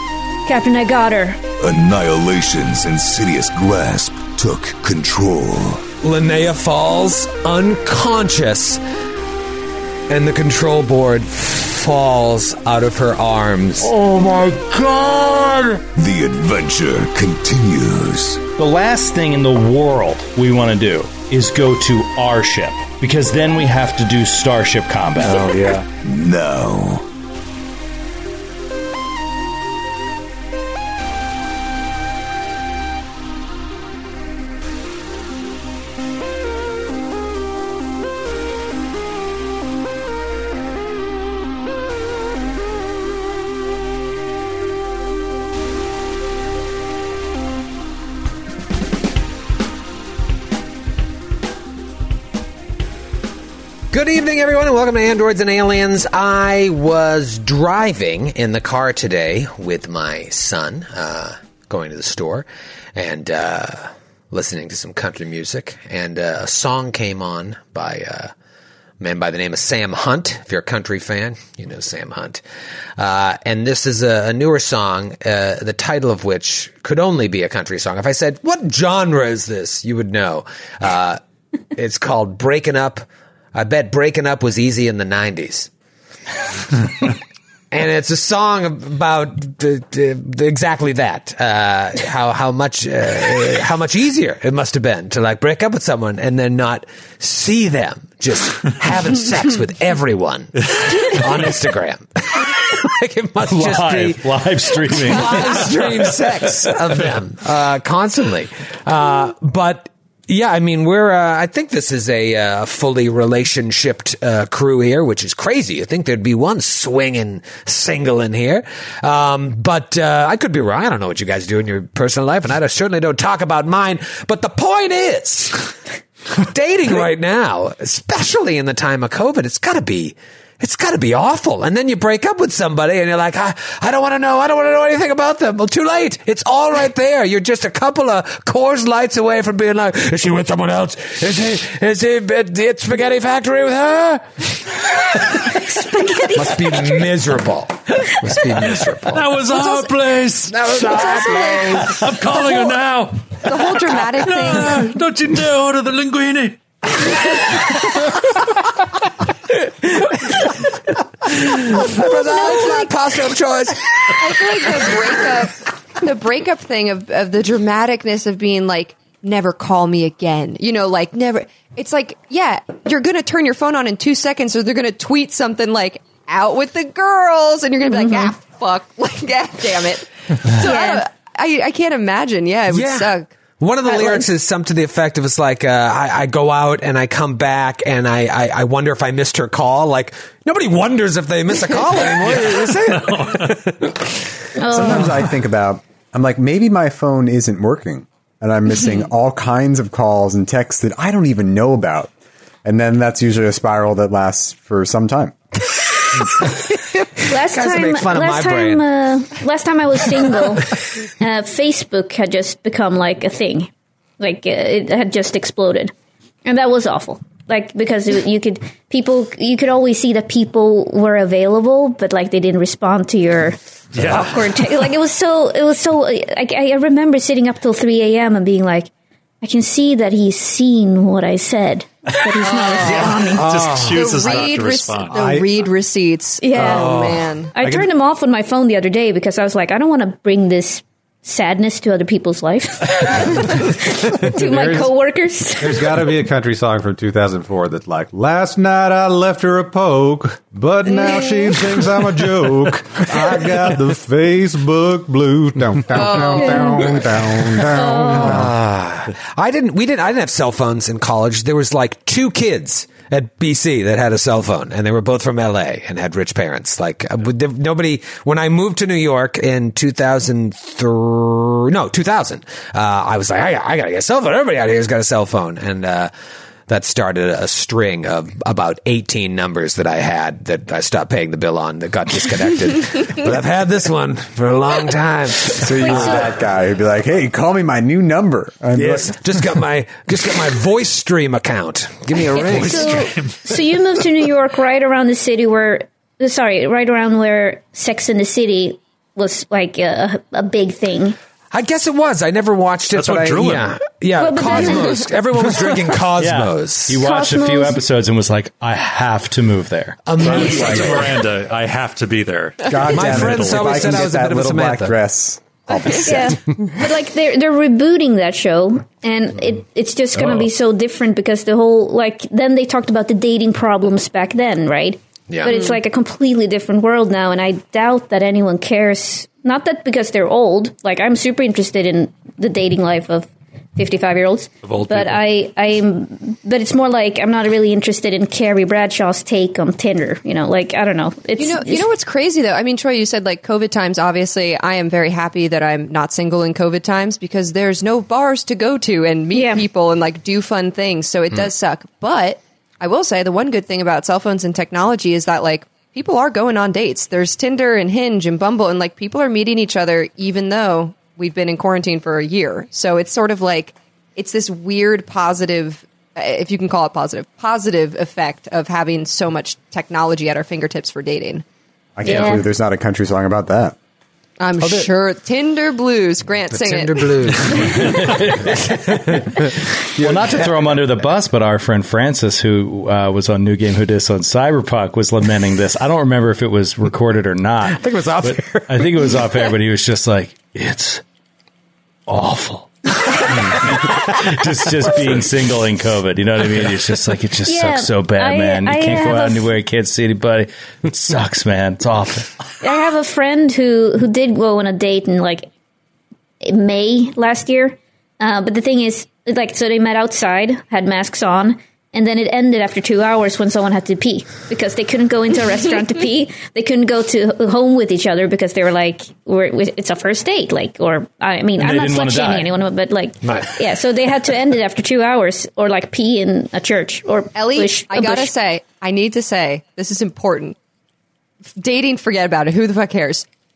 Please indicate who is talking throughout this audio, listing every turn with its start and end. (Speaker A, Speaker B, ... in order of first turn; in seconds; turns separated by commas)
Speaker A: 0.5-1.4, Speaker B: 1.6-5.8, Speaker C: 6.0-8.8, Speaker C: 10.1-13.9, Speaker D: 13.8-15.8, Speaker B: 15.9-18.4, Speaker D: 18.6-25.8, Speaker B: 26.0-27.1, Speaker C: 53.9-68.3, Speaker C: 69.0-72.4, Speaker C: 73.0-81.2, Speaker C: 81.8-85.7, Speaker C: 86.7-87.1, Speaker C: 87.7-125.7, Speaker D: 103.5-106.7, Speaker E: 105.1-105.9, Speaker C: 126.3-144.2, Speaker A: 145.4-146.9, Speaker C: 146.3-149.3, Speaker F: 148.7-150.7, Speaker C: 150.5-152.1, Speaker A: 151.0-151.6, Speaker F: 151.2-156.6, Speaker E: 153.4-154.8, Speaker C: 159.8-160.5, Speaker C: 161.2-164.7, Speaker E: 164.2-183.3, Speaker A: 177.9-178.3, Speaker A: 180.6-181.1, Speaker C: 182.7-194.0, Speaker E: 183.9-184.2, Speaker F: 192.2-193.6, Speaker A: 194.6-195.1, Speaker G: 194.7-202.1, Speaker G: 202.6-205.4, Speaker A: 207.3-215.9, Speaker C: 207.3-208.8, Speaker A: 216.4-228.9, Speaker F: 223.9-224.5, Speaker A: 229.4-233.5, Speaker E: 232.4-237.5, Speaker F: 233.0-235.2, Speaker C: 233.5-234.0, Speaker H: 235.1-235.5, Speaker A: 236.4-237.0, Speaker H: 236.6-237.0, Speaker C: 236.8-237.3, Speaker A: 237.5-246.0, Speaker H: 237.6-237.9, Speaker H: 244.2-244.9, Speaker H: 245.6-258.6, Speaker E: 255.9-256.9, Speaker A: 256.4-256.9, Speaker A: 257.7-258.5, Speaker C: 258.2-276.1, Speaker C: 276.7-286.3, Speaker G: 285.6-289.2, Speaker A: 285.8-286.3, Speaker C: 288.8-293.0, Speaker F: 292.4-293.5, Speaker A: 292.5-301.2, Speaker C: 301.5-307.0, Speaker F: 302.9-303.8, Speaker A: 304.2-305.1, Speaker D: 306.2-310.1, Speaker A: 307.0-307.8, Speaker C: 310.1-311.2, Speaker F: 310.2-313.8, Speaker G: 312.7-316.4, Speaker C: 312.9-315.0, Speaker A: 316.1-341.9, Speaker F: 334.6-335.2, Speaker E: 341.4-371.4, Speaker A: 349.3-349.6, Speaker G: 372.0-373.8, Speaker A: 372.1-372.5, Speaker E: 374.4-377.9, Speaker C: 376.5-379.4, Speaker D: 377.9-378.6, Speaker D: 380.0-391.0, Speaker C: 387.7-388.9, Speaker D: 392.1-402.4, Speaker A: 397.4-399.5, Speaker A: 402.6-405.5, Speaker A: 406.4-428.3, Speaker D: 421.6-422.5, Speaker C: 423.2-423.5, Speaker E: 427.4-430.6, Speaker E: 431.5-433.3